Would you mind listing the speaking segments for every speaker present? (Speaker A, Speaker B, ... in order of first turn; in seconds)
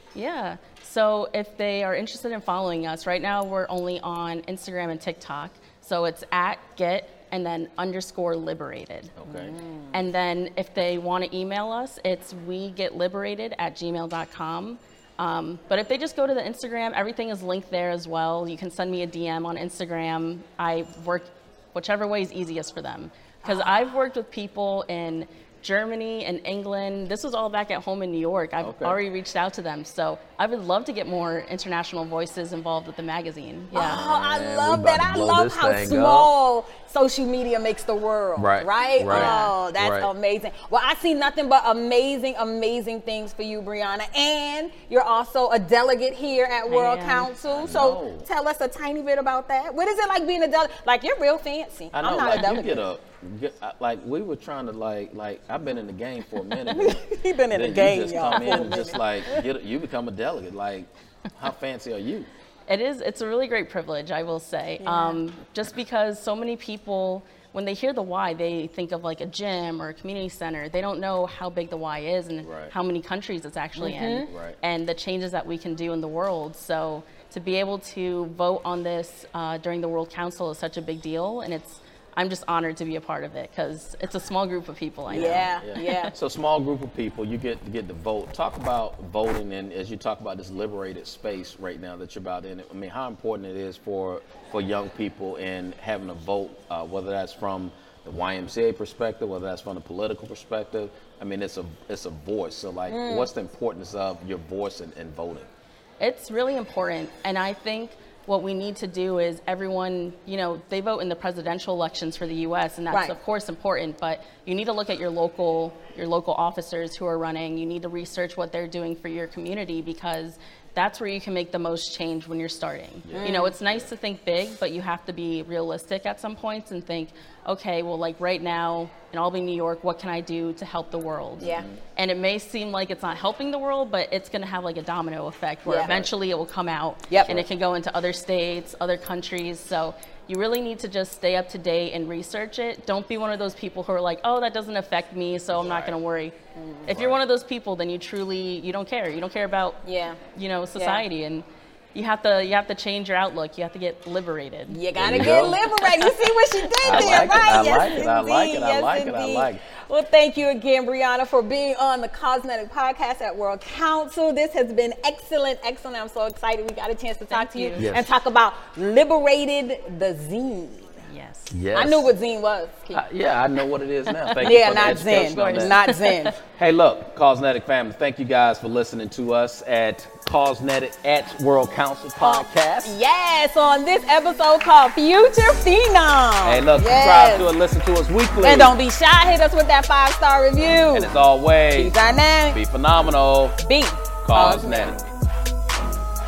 Speaker A: 0.1-9.1, 9.9-34.0, 39.1-39.5, 46.7-47.3, 62.7-86.1, 106.0-146.3, 146.9-149.8, 150.3-154.8, 155.9-156.2, 167.3-167.9, 171.1-171.5, 174.1-176.4
Speaker B: 9.2-9.5, 28.6-29.0, 33.8-36.3, 38.4-40.1, 47.5-48.3, 51.9-62.3, 72.4-72.7, 74.3-74.6, 85.1-105.5, 123.0-123.9, 131.4-131.8, 135.9-136.1, 145.5-145.9, 146.9-147.2, 154.9-155.7, 156.8-159.6, 167.8-168.1, 171.5-172.1, 172.9-175.8, 176.5-183.0, 186.4-188.8, 190.9-192.0, 192.5-193.6, 194.2-195.0
Speaker C: 9.3-10.0, 23.4-23.8, 33.7-52.8, 56.7-59.5, 64.8-65.2, 73.8-74.3, 85.1-86.1, 102.9-103.3, 123.1-123.6, 131.4-131.7, 135.7-135.9, 146.6-146.9, 149.8-150.2, 150.8-151.0, 154.7-171.0, 171.7-173.0, 174.4-176.4, 182.2-187.5, 188.4-191.1, 191.8-192.6, 193.6-195.0